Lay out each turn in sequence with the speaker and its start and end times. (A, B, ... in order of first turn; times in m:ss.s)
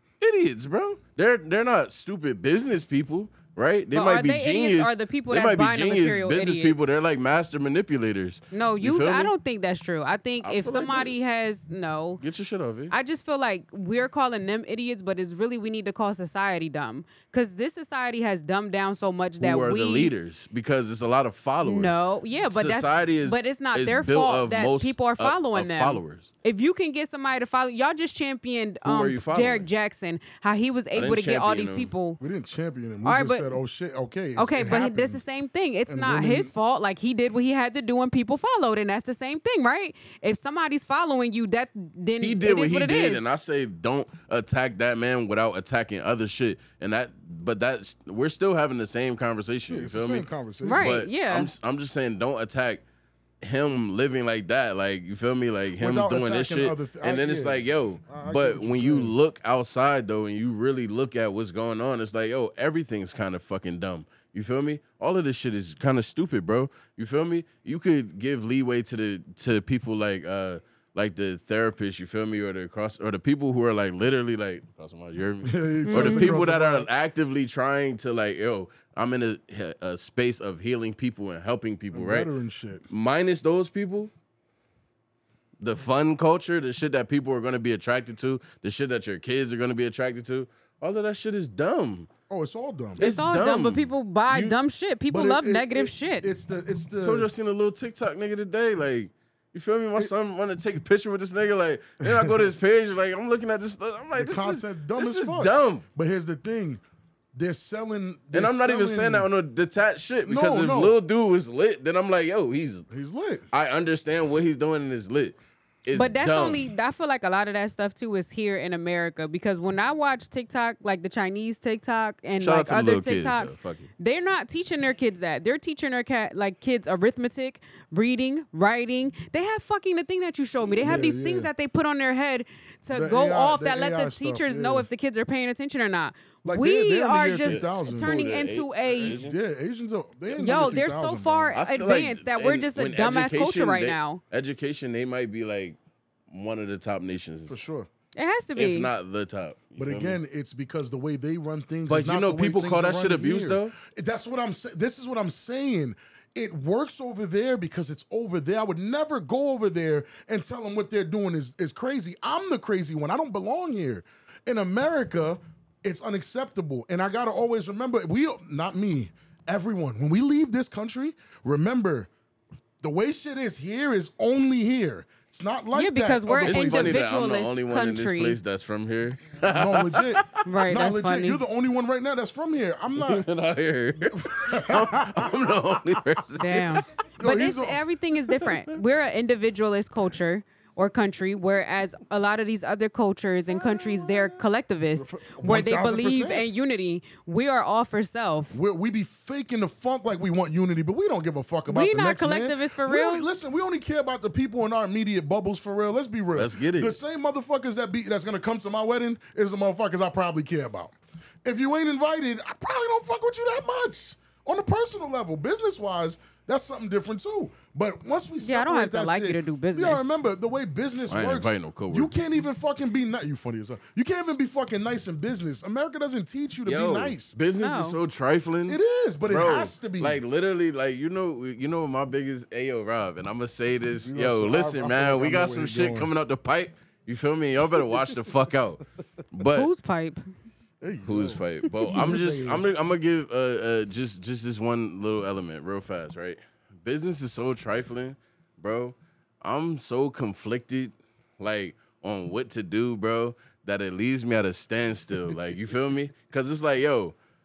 0:00.2-0:09.3 A
0:03.9-0:07.0 B
0:08.5-0:12.2 B
0:10.4-0:11.1 A
0:12.2-0:12.9 A
0:12.9-0:20.1 B
0:19.4-0:26.3 A
0:21.6-0:32.2 B
0:28.8-0:29.7 A
0:30.9-0:31.9 A
0:32.2-0:35.2 C
0:33.0-0:33.5 B
0:34.4-0:43.2 B
0:35.9-0:36.5 C
0:42.2-0:52.8 A
0:49.7-0:51.0 C
0:50.6-0:51.5 B
0:53.4-1:22.3 A
0:55.8-0:59.1 C
1:15.4-1:16.9 C
1:15.9-1:16.3 B
1:21.9-1:22.8 C
1:22.9-1:24.1 A
1:25.6-1:32.1 A
1:32.3-1:33.0 C
1:33.0-1:36.3 B
1:33.0-1:34.5 A
1:35.1-1:37.3 C
1:37.0-1:45.8 A
1:44.1-1:46.8 C
1:47.3-1:49.3 C
1:48.3-1:52.8 A
1:50.2-1:51.0 C
1:52.9-1:53.4 C
1:53.5-1:56.6 A
1:55.9-2:19.2 B
2:02.4-2:03.9 A
2:10.8-2:11.5 C
2:12.9-2:14.9 C
2:16.4-2:18.2 C
2:17.4-2:19.4 A
2:19.0-2:21.5 C
2:20.3-2:24.2 B
2:21.5-2:25.8 A
2:26.3-2:27.6 A
2:27.5-2:27.9 C
2:28.1-2:28.9 B
2:28.6-2:30.2 A
2:29.8-2:52.1 C
2:31.9-2:33.7 A
2:52.8-2:57.0 C
2:55.7-2:58.4 B
2:56.4-3:00.4 A
2:59.4-3:03.2 C
3:00.4-3:01.4 B
3:03.0-3:06.8 A
3:04.1-3:06.0 C
3:06.4-3:18.6 B
3:07.2-3:07.8 C
3:15.0-3:16.5 C
3:18.5-3:30.9 C
3:21.7-3:23.3 B
3:26.3-3:27.0 A
3:31.4-3:47.4 C
3:38.4-3:40.1 B
3:41.1-3:42.1 A
3:46.6-3:59.7 A
3:47.6-3:48.0 B
3:48.7-3:50.2 C
3:54.0-3:56.1 C
3:59.5-4:00.2 B
4:00.8-4:02.7 C
4:01.0-4:17.1 A